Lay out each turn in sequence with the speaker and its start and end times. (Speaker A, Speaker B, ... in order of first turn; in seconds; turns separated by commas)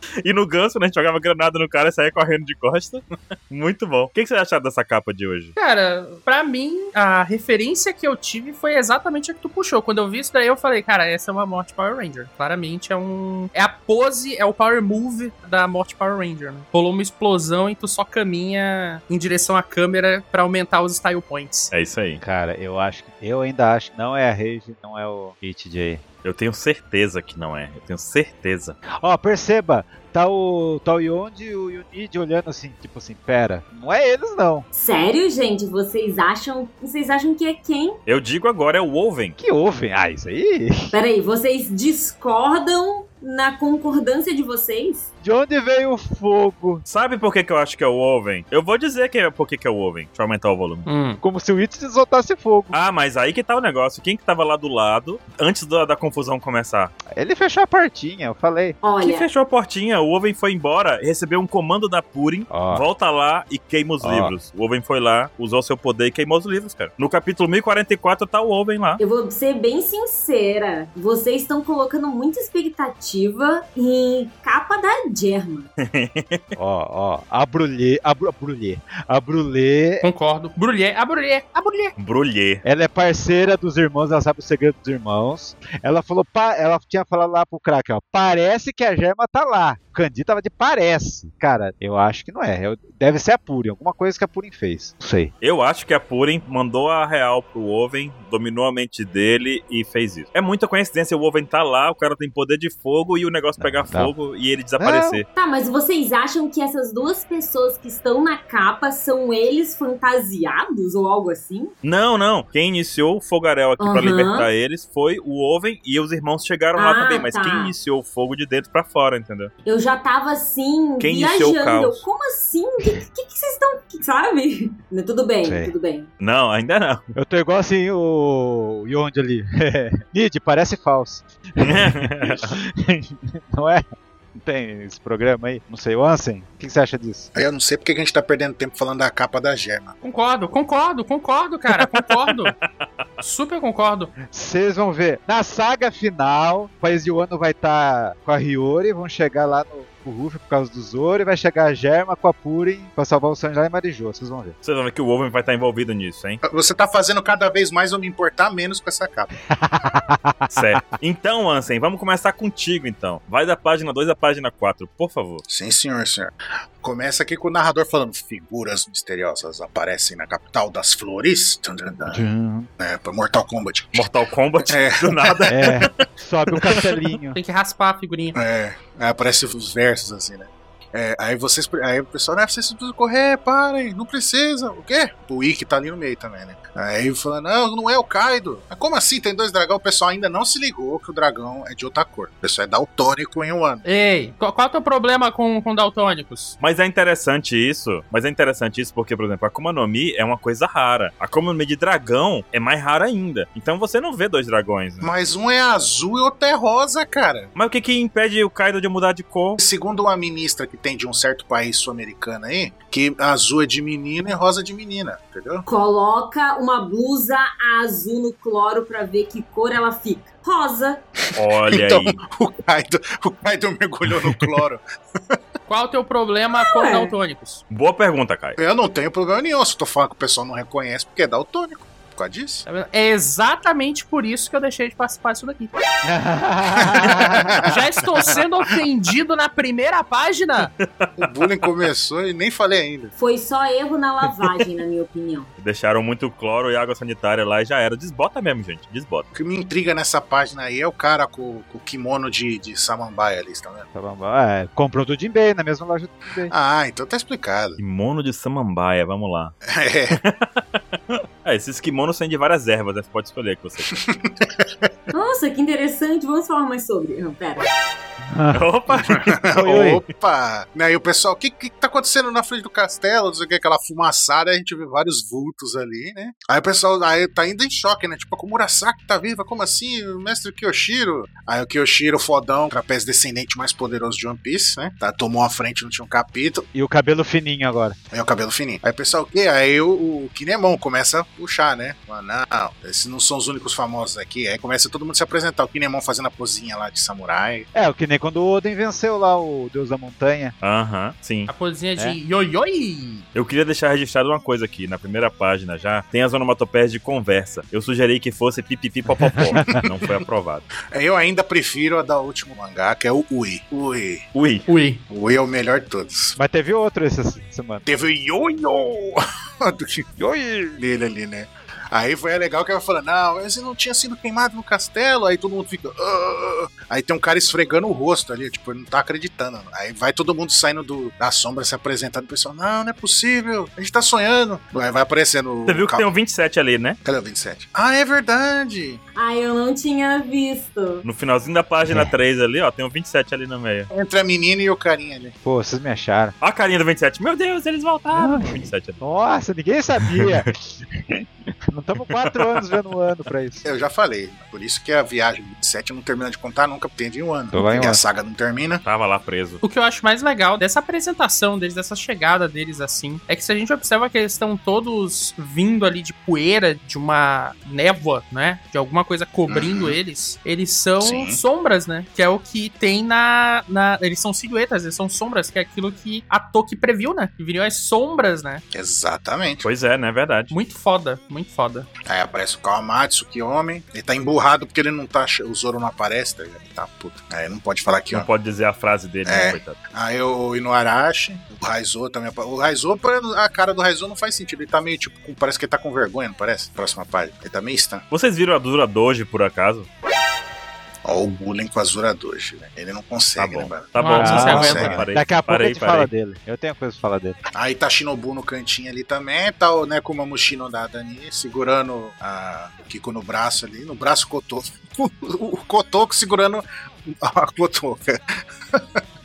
Speaker A: 0.2-5.5, Speaker B: 5.6-21.7, Speaker A: 21.7-22.2, Speaker C: 22.2-26.0, Speaker A: 26.2-28.8, Speaker C: 29.0-34.7, Speaker D: 34.7-38.0, Speaker A: 38.1-39.4, Speaker C: 39.4-40.9, Speaker D: 40.9-45.1, Speaker C: 45.2-46.8, Speaker A: 46.9-50.9, Speaker B: 50.9-51.2, Speaker C: 51.2-52.8, Speaker A: 52.7-56.9, Speaker C: 57.1-58.8, Speaker D: 58.8-59.3, Speaker A: 59.0-69.0, Speaker C: 62.5-62.9, Speaker C: 64.0-64.3, Speaker D: 69.0-75.7, Speaker A: 75.8-76.4, Speaker C: 76.6-80.0, Speaker B: 80.0-82.0, Speaker A: 82.0-82.6, Speaker C: 82.6-95.3, Speaker A: 95.4-105.2, Speaker C: 103.6-104.1, Speaker C: 104.8-105.2, Speaker D: 105.3-111.7, Speaker A: 111.8-119.5, Speaker D: 113.8-114.5, Speaker D: 116.8-117.7, Speaker D: 119.7-126.1, Speaker A: 121.0-122.0, Speaker C: 125.4-125.7, Speaker A: 126.2-127.0, Speaker C: 127.2-133.8, Speaker A: 131.6-132.5, Speaker C: 134.3-137.3, Speaker E: 137.3-139.9, Speaker B: 140.0-142.5, Speaker A: 141.8-142.5, Speaker B: 143.2-144.1, Speaker C: 144.3-154.6, Speaker A: 154.6-156.4, Speaker E: 156.4-159.3, Speaker C: 159.5-160.8, Speaker A: 160.5-165.4, Speaker E: 165.5-172.2, Speaker C: 172.1-172.7, Speaker E: 172.8-174.1, Speaker A: 173.9-176.0, Speaker E: 174.6-175.5, Speaker C: 175.5-177.4, Speaker A: 176.6-176.9, Speaker B: 177.3-178.4, Speaker E: 178.3-193.8, Speaker B: 193.8-196.6, Speaker A: 196.6-205.1, Speaker E: 205.0-207.5, Speaker A: 207.6-209.6, Speaker E: 209.6-215.6, Speaker D: 215.7-221.0, Speaker A: 221.4-222.2, Speaker E: 221.4-225.4, Speaker B: 225.7-227.6, Speaker D: 226.6-227.1, Speaker A: 227.7-228.6, Speaker E: 228.6-232.7, Speaker B: 232.7-235.7, Speaker C: 236.0-237.7, Speaker E: 236.7-238.4, Speaker B: 237.6-240.7, Speaker A: 240.8-241.7, Speaker E: 241.2-243.1, Speaker D: 243.2-245.5, Speaker A: 245.6-249.3, Speaker E: 249.3-253.9, Speaker C: 253.9-256.5, Speaker E: 256.5-257.8, Speaker A: 257.8-259.6, Speaker E: 259.7-260.2, Speaker A: 260.1-260.6, Speaker A: 261.1-263.9, Speaker E: 263.9-264.9, Speaker D: 265.1-267.7, Speaker C: 268.3-270.0, Speaker A: 268.5-269.9, Speaker E: 269.1-286.7, Speaker C: 286.7-288.0, Speaker E: 288.1-297.7, Speaker C: 297.7-300.5, Speaker A: 300.6-301.5, Speaker B: 301.5-303.2, Speaker A: 303.4-310.7, Speaker C: 309.3-309.9, Speaker E: 310.9-314.3, Speaker A: 314.3-314.7, Speaker B: 314.7-315.0, Speaker E: 315.1-316.4, Speaker C: 316.4-317.8, Speaker E: 317.9-320.1, Speaker C: 320.2-320.8, Speaker E: 320.8-336.1, Speaker A: 335.7-337.0, Speaker E: 337.0-339.0, Speaker D: 339.2-341.1, Speaker A: 341.0-343.9, Speaker E: 343.9-345.4, Speaker C: 345.4-346.4, Speaker A: 346.4-349.0, Speaker C: 348.1-353.7, Speaker A: 352.1-352.6, Speaker E: 353.6-358.8, Speaker C: 357.5-358.0, Speaker A: 358.9-359.6, Speaker B: 359.6-378.6, Speaker E: 369.5-370.0, Speaker E: 371.0-371.4, Speaker E: 378.7-379.6, Speaker A: 379.6-380.5, Speaker B: 380.5-381.9, Speaker E: 382.1-388.3, Speaker A: 388.1-389.8, Speaker E: 389.2-398.0, Speaker A: 398.1-399.9, Speaker E: 401.1-405.0, Speaker A: 403.4-406.1, Speaker B: 404.0-404.8, Speaker C: 404.2-407.4, Speaker E: 407.6-418.2